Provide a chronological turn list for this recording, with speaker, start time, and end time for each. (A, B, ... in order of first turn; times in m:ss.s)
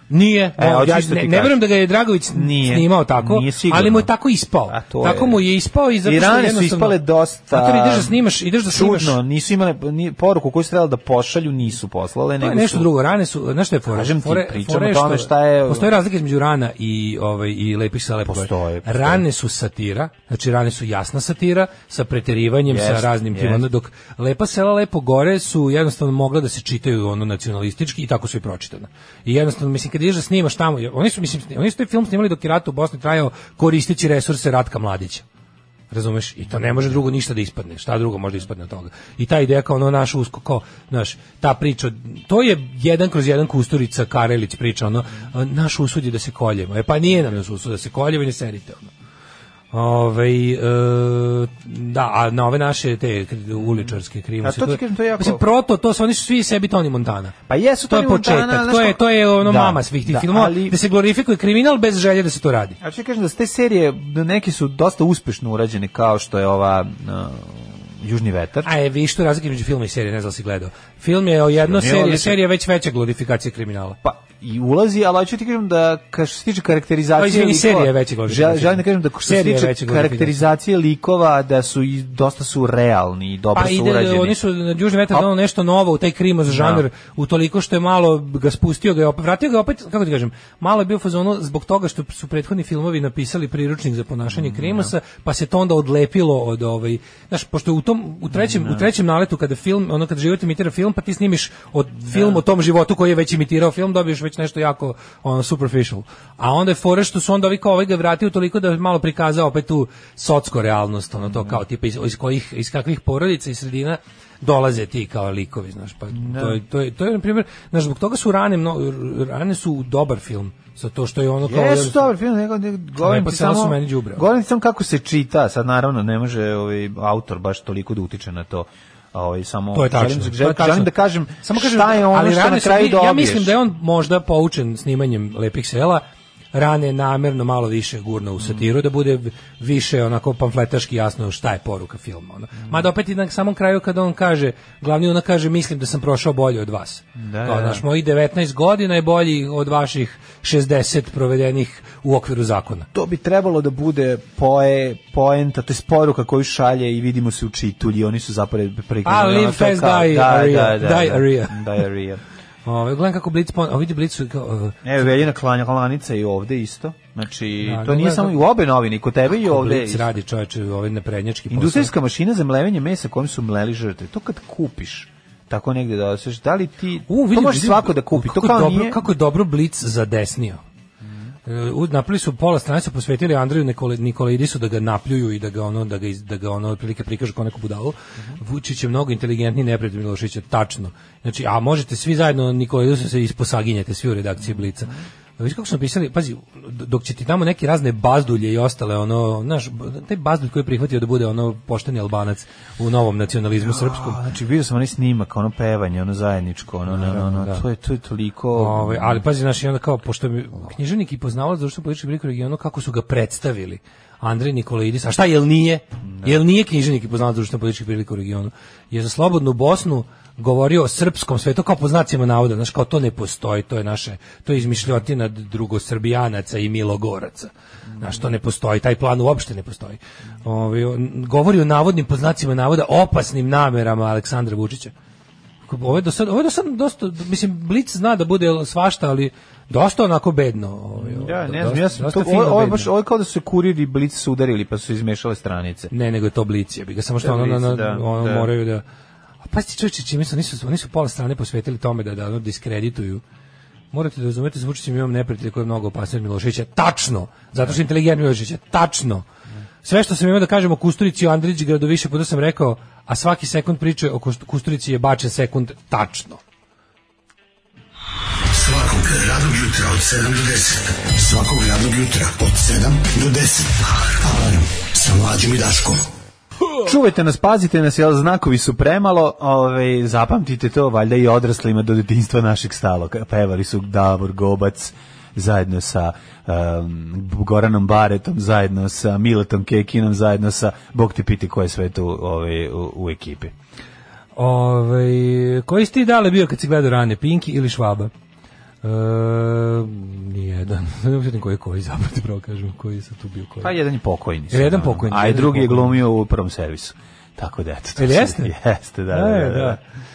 0:00.1-0:07.0 A
0:00.6-0:01.6 B
0:02.3-0:04.1 B
0:04.7-0:05.4 B
0:06.0-0:12.9 B
0:07.5-0:09.2 A
0:12.4-0:35.2 A
0:13.9-0:15.9 B
0:18.3-0:19.2 B
0:22.6-0:23.7 B
0:35.9-0:48.9 A
0:36.6-0:37.0 B
0:49.7-0:57.4 A
0:53.6-0:55.4 B
0:57.5-1:00.8 B
0:57.9-1:02.8 A
1:02.8-1:08.7 B
1:08.6-1:14.0 A
1:11.6-1:12.4 B
1:14.0-1:24.4 B
1:17.2-1:20.4 A
1:23.5-2:02.1 A
1:26.5-1:26.9 B
1:34.3-1:34.9 B
1:38.3-1:38.9 B
1:42.1-1:42.4 B
1:51.2-1:51.6 B
1:56.1-1:56.6 B
2:01.4-2:13.6 B
2:03.0-2:04.3 A
2:09.7-2:32.9 A
2:18.4-2:18.7 B
2:27.2-2:27.8 B
2:32.9-2:42.2 B
2:39.0-2:41.8 A
2:42.6-2:44.9 A
2:44.8-2:50.1 B
2:47.6-2:48.4 A
2:49.3-2:51.9 A
2:51.5-2:59.0 B
2:57.1-3:00.6 A
3:01.4-3:24.2 A
3:14.5-3:15.0 B
3:23.6-3:29.2 B
3:26.9-3:27.6 A
3:28.6-3:54.9 A
3:36.1-3:36.4 B
3:55.7-4:02.9 A
4:01.0-4:05.9 B
4:05.9-4:08.8 A
4:07.2-4:08.5 B
4:09.4-4:13.2 A
4:13.9-4:19.2 A
4:19.8-4:26.4 A
4:28.7-4:30.7 C
4:31.3-4:33.4 C
4:32.6-4:33.4 B
4:35.0-4:35.9 C
4:36.8-4:53.5 B
4:54.4-4:58.1 A
4:58.8-5:03.7 A
5:03.6-5:09.8 B
5:04.5-5:06.0 A
5:08.0-5:08.5 A
5:09.1-5:09.8 A